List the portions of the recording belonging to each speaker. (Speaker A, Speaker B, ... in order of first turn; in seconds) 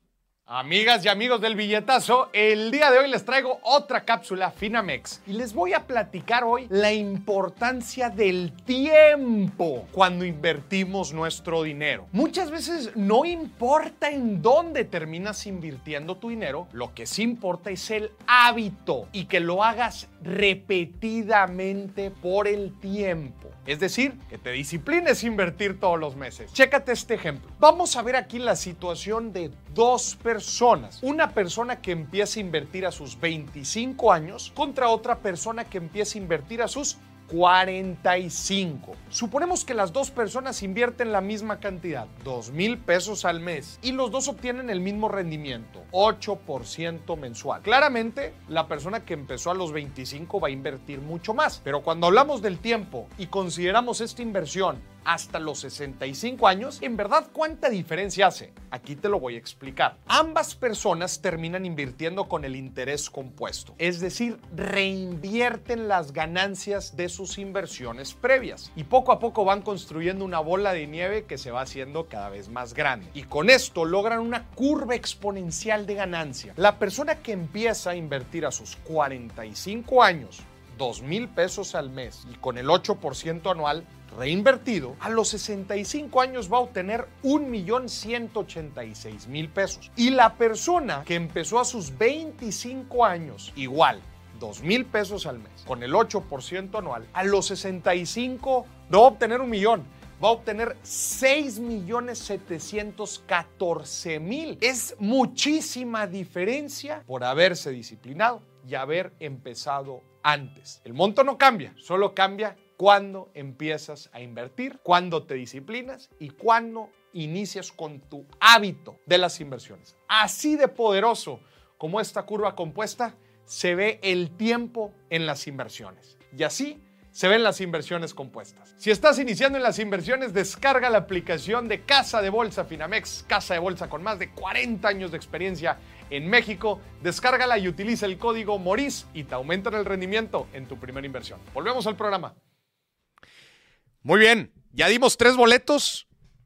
Speaker A: 0.5-142.3, 144.0-146.1